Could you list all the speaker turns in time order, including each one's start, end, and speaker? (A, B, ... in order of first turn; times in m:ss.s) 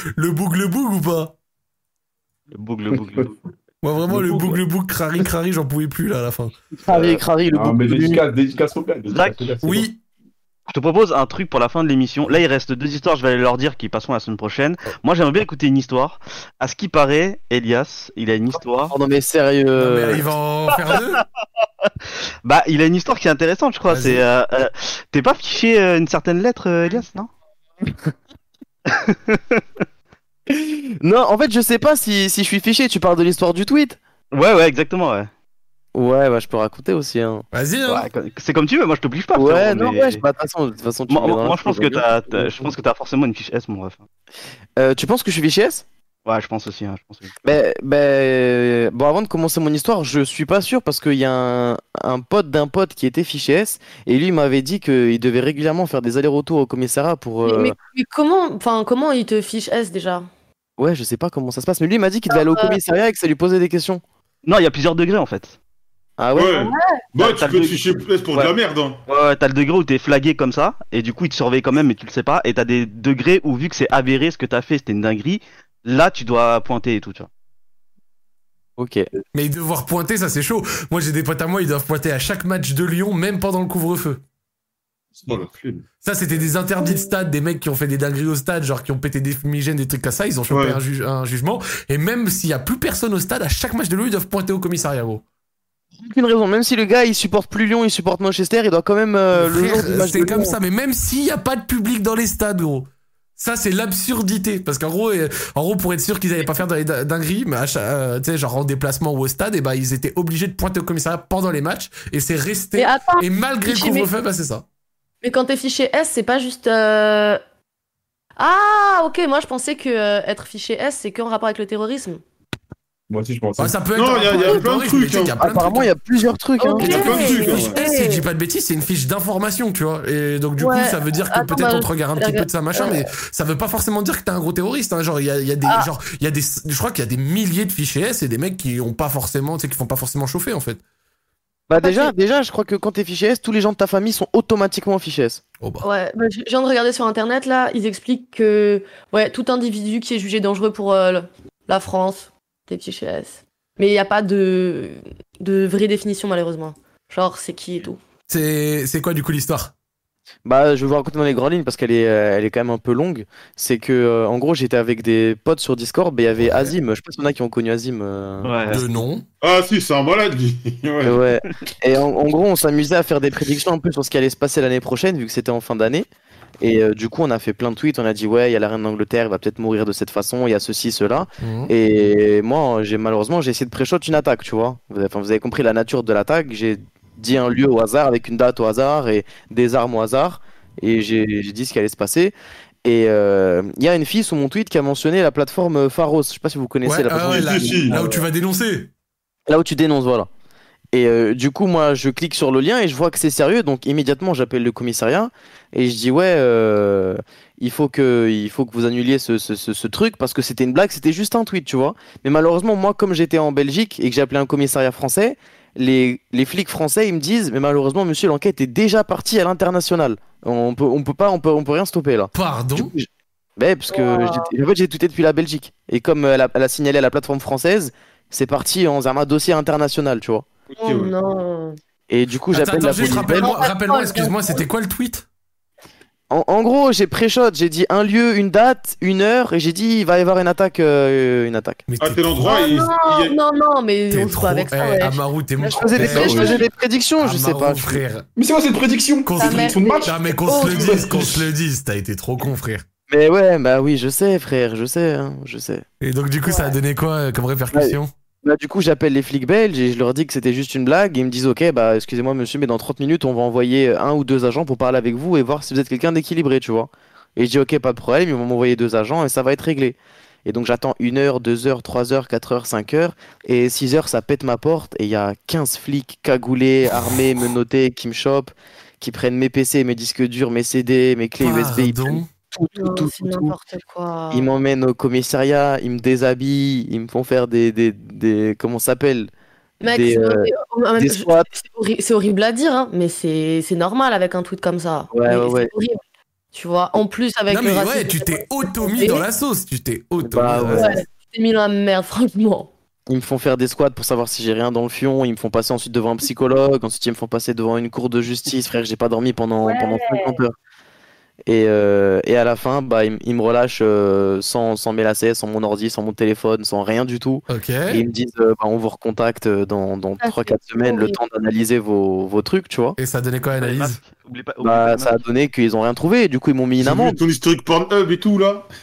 0:00.2-0:01.4 A
0:02.5-0:03.4 B
0:03.8-0:06.5 A
0:04.1-0:04.6 C
0:06.8-0:08.2 D
0:06.9-0:09.9 C
0:09.1-0:09.6 B
0:09.6-0:10.0 A
0:10.7-0:18.9 B
0:18.9-0:20.3 D
0:19.8-0:21.2 A
0:22.4-0:27.3 B
0:23.9-0:24.2 A
0:28.9-0:29.8 B
0:30.5-0:34.0 D
0:34.3-0:35.3 B
0:35.9-0:37.4 D
0:37.5-0:38.1 A
0:37.9-0:40.2 B
0:39.4-0:42.7 D
0:41.1-0:44.0 B
0:44.8-0:45.8 D
0:46.3-0:47.3 B
0:47.4-0:57.7 D
0:57.4-1:00.3 E
1:00.8-1:04.0 D
1:02.3-1:02.8 E
1:04.4-1:05.6 B
1:06.2-1:06.6 D
1:06.4-1:09.0 F
1:06.6-1:07.0 E
1:07.2-1:08.5 B
1:09.1-1:17.3 B
1:18.8-1:19.1 D
1:19.3-1:24.2 A
1:25.2-1:25.8 F
1:26.0-1:35.2 A
1:30.5-1:30.8 F
1:36.0-1:40.6 D
1:39.3-1:54.6 A
1:52.8-1:54.1 E
1:55.2-1:57.4 E
1:58.4-2:02.2 E
2:03.1-2:03.8 C
2:03.6-2:05.9 A
2:04.0-2:05.4 F
2:05.4-2:07.4 D
2:06.6-2:08.2 E
2:06.8-2:07.8 F
2:06.8-2:20.8 A
2:10.6-2:13.0 E
2:21.7-2:25.4 D
2:21.8-2:22.1 E
2:25.6-2:25.9 A
2:25.8-2:38.0 E
2:38.3-2:39.7 A
2:40.4-2:48.8 D
2:48.4-2:48.8 B
2:48.7-2:49.2 A
2:49.4-2:51.2 F
2:51.0-2:56.1 D
2:56.6-3:12.3 D
3:01.4-3:01.7 A
3:12.8-3:18.2 D
3:16.8-3:18.9 A
3:17.2-3:18.0 F
3:19.5-3:20.3 D
3:20.9-3:50.5 D
3:42.3-3:42.9 A
3:43.9-3:44.5 E
3:50.7-3:51.2 F
3:50.8-3:51.8 E
3:52.1-3:53.5 D
3:52.5-3:55.3 A
3:53.0-3:54.6 E
3:56.3-4:01.8 D
4:01.9-4:02.6 A
4:02.0-4:03.4 F
4:02.5-4:06.6 E
4:04.1-4:06.6 A
4:05.7-4:08.0 D
4:06.0-4:06.6 C
4:07.2-4:08.3 A
4:08.4-4:11.5 C
4:09.2-4:12.8 A
4:09.4-4:10.9 E
4:13.1-4:15.8 D
4:16.0-4:18.1 A
4:16.5-4:16.7 E
4:17.7-4:43.5 D
4:41.4-4:42.3 A
4:42.8-4:44.5 E
4:44.3-4:49.3 D
4:49.8-4:56.0 E
4:49.9-4:51.5 D
4:55.1-4:55.7 D
4:56.5-4:59.2 E
4:57.5-5:01.0 A
5:00.2-5:01.0 D
5:00.7-5:02.7 E
5:03.1-5:10.6 D
5:09.6-5:10.4 E
5:11.5-5:23.0 D
5:17.5-5:18.0 A
5:20.2-5:21.2 E
5:23.0-5:24.0 A
5:23.6-5:25.2 B
5:24.6-5:27.2 D
5:26.8-5:28.7 F